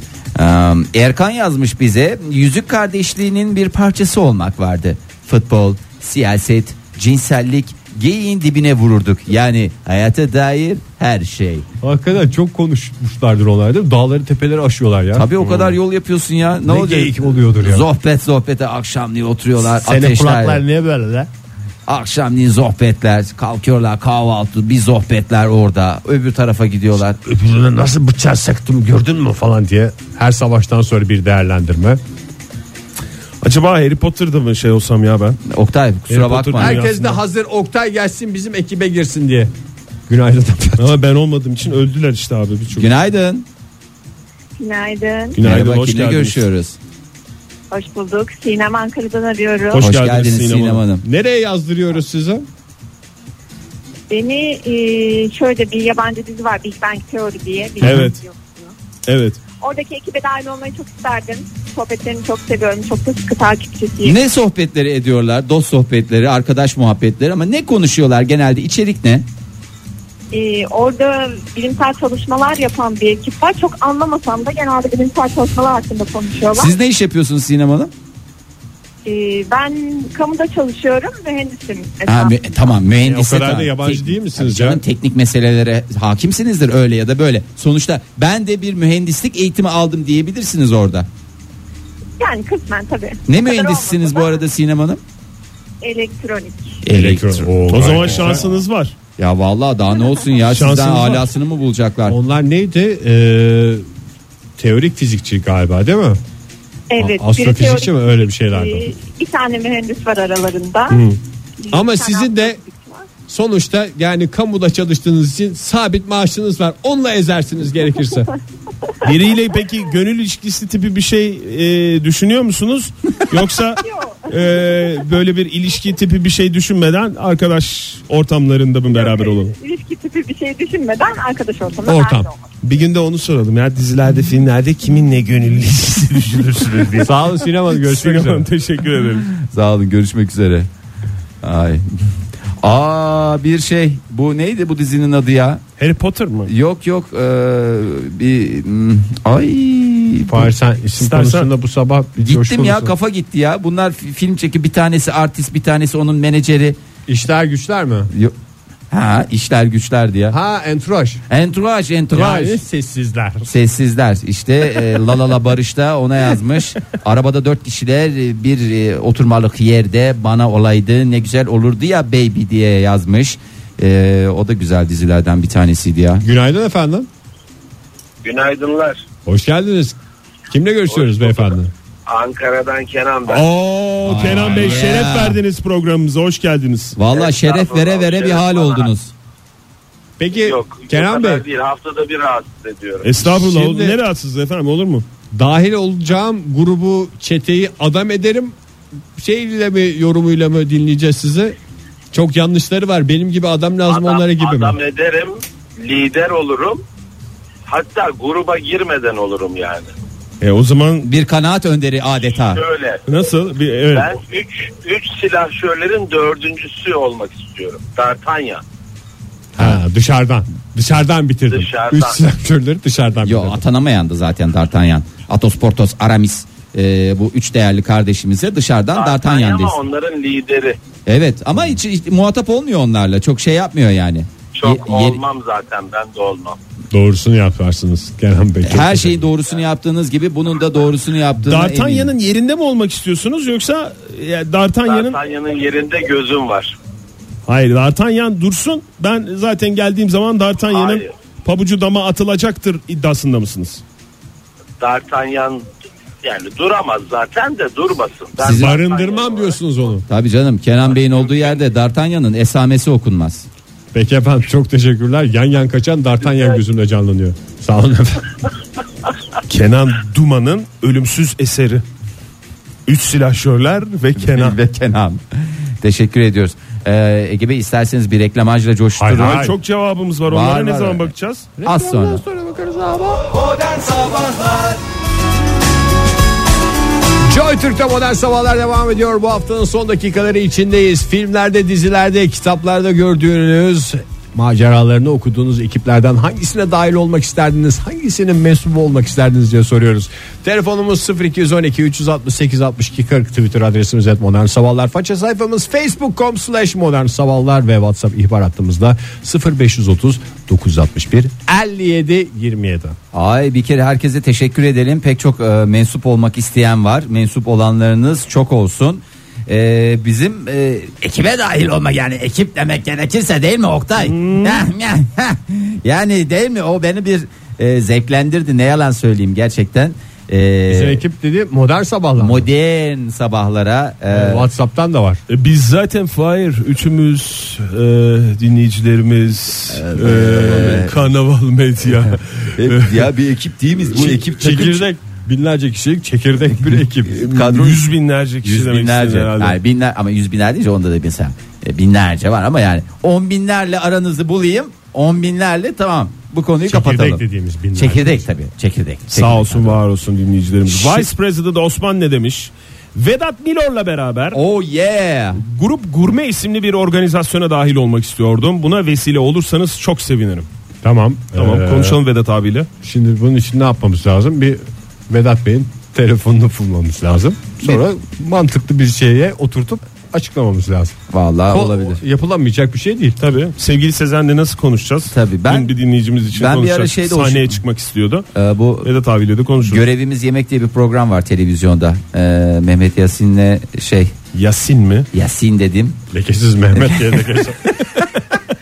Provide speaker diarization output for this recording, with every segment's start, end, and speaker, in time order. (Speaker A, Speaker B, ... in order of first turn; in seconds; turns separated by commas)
Speaker A: 0.4-11.7, Speaker B: 11.8-15.3, Speaker A: 15.1-20.6, Speaker C: 15.4-15.8, Speaker B: 16.6-17.9, Speaker B: 19.6-21.3, Speaker A: 21.9-27.2, Speaker B: 27.2-32.0, Speaker C: 33.4-35.4, Speaker A: 35.5-36.8, Speaker C: 36.1-37.2, Speaker B: 36.6-39.5, Speaker B: 40.1-41.0, Speaker C: 40.8-42.9, Speaker A: 42.7-43.5, Speaker D: 44.6-45.4, Speaker C: 45.4-46.5, Speaker A: 45.4-46.8, Speaker D: 47.7-49.9, Speaker C: 49.7-50.8, Speaker A: 49.8-51.0, Speaker B: 51.0-52.5, Speaker D: 54.1-58.7, Speaker C: 57.8-58.2, Speaker C: 59.1-59.4, Speaker D: 59.6-64.2, Speaker A: 64.0-69.3, Speaker D: 70.3-76.7, Speaker A: 76.6-77.9, Speaker D: 79.0-82.4, Speaker A: 82.1-91.1, Speaker B: 83.0-84.8, Speaker D: 92.2-94.4, Speaker A: 93.3-95.0, Speaker D: 95.8-96.8, Speaker A: 96.8-98.3, Speaker B: 96.9-98.4, Speaker C: 97.7-99.0, Speaker A: 99.2-102.2, Speaker C: 100.5-101.3, Speaker B: 102.1-103.9, Speaker B: 104.6-106.2, Speaker D: 106.9-111.0, Speaker B: 107.0-108.9, Speaker D: 111.6-113.1, Speaker B: 111.7-112.6, Speaker B: 113.3-118.3, Speaker C: 119.0-129.5, Speaker D: 123.8-124.7, Speaker D: 128.9-132.4, Speaker B: 131.8-132.3, Speaker C: 132.6-137.2, Speaker B: 137.0-138.5, Speaker C: 137.7-139.3, Speaker A: 139.4-140.7, Speaker A: 141.4-141.9, Speaker A: 142.6-145.6, Speaker C: 145.8-146.5, Speaker A: 146.5-150.5, Speaker B: 150.3-152.9, Speaker C: 151.0-151.5, Speaker A: 152.2-156.8, Speaker B: 157.1-158.1, Speaker A: 158.9-160.4, Speaker B: 160.3-161.2, Speaker A: 161.3-162.6, Speaker B: 162.1-163.5, Speaker A: 163.4-176.2, Speaker B: 176.2-177.1, Speaker E: 178.2-179.0, Speaker B: 179.3-180.0, Speaker B: 180.5-181.7, Speaker E: 180.9-181.6, Speaker E: 182.1-183.5, Speaker C: 183.3-187.0, Speaker A: 184.1-185.4, Speaker B: 184.2-184.5, Speaker A: 187.0-189.1, Speaker E: 187.0-188.9, Speaker B: 190.2-191.4, Speaker E: 190.4-193.1, Speaker C: 193.0-195.1, Speaker B: 193.2-194.0, Speaker B: 195.3-198.6, Speaker B: 199.2-201.6, Speaker B: 202.1-204.8, Speaker E: 203.9-206.8, Speaker E: 207.7-209.9, Speaker C: 210.4-211.1, Speaker A: 211.0-212.6, Speaker E: 212.5-213.0, Speaker C: 213.1-214.1, Speaker E: 213.9-218.6, Speaker B: 219.6-223.6, Speaker E: 221.5-222.2, Speaker A: 223.2-229.8, Speaker E: 228.9-230.8, Speaker A: 231.1-235.2, Speaker E: 234.6-236.6, Speaker B: 236.9-239.3, Speaker A: 238.6-242.1, Speaker C: 241.5-245.2, Speaker E: 244.9-246.8, Speaker C: 247.5-253.8, Speaker E: 250.7-251.1, Speaker E: 254.8-255.7, Speaker E: 256.2-259.6, Speaker A: 258.4-258.8, Speaker B: 258.4-260.1, Speaker A: 260.1-263.5, Speaker E: 260.9-261.5, Speaker B: 263.9-268.3, Speaker C: 269.5-271.8, Speaker C: 272.9-274.6, Speaker A: 274.2-279.5, Speaker B: 279.0-279.6, Speaker C: 279.1-281.5, Speaker A: 280.3-281.1, Speaker B: 281.6-283.4, Speaker A: 281.6-282.2, Speaker A: 283.5-284.8, Speaker B: 287.3-313.0, Speaker A: 313.1-331.0, Speaker C: 324.0-324.7, Speaker B: 330.7-332.5, Speaker A: 332.2-334.5, Speaker B: 334.1-335.2, Speaker C: 335.3-343.1, Speaker A: 339.7-341.0, Speaker A: 342.6-344.9, Speaker B: 343.9-347.2, Speaker A: 347.1-347.9, Speaker C: 347.1-349.6, Speaker A: 348.4-357.2, Speaker B: 356.6-358.3, Speaker A: 357.8-359.8, Speaker C: 359.1-364.4, Speaker A: 360.7-361.1, Speaker A: 364.3-365.4, Speaker C: 365.4-370.5, Speaker B: 370.8-372.0, Speaker C: 371.4-372.7, Speaker B: 372.8-381.0, Speaker A: 381.1-382.0, Speaker B: 381.5-383.2, Speaker C: 383.2-388.3, Speaker A: 385.1-385.7, Speaker A: 386.3-387.6, Speaker A: 388.4-388.9, Speaker C: 388.8-389.8, Speaker A: 389.7-394.1, Speaker C: 394.3-395.1, Speaker A: 395.1-396.0, Speaker B: 396.1-397.9, Speaker A: 396.8-397.2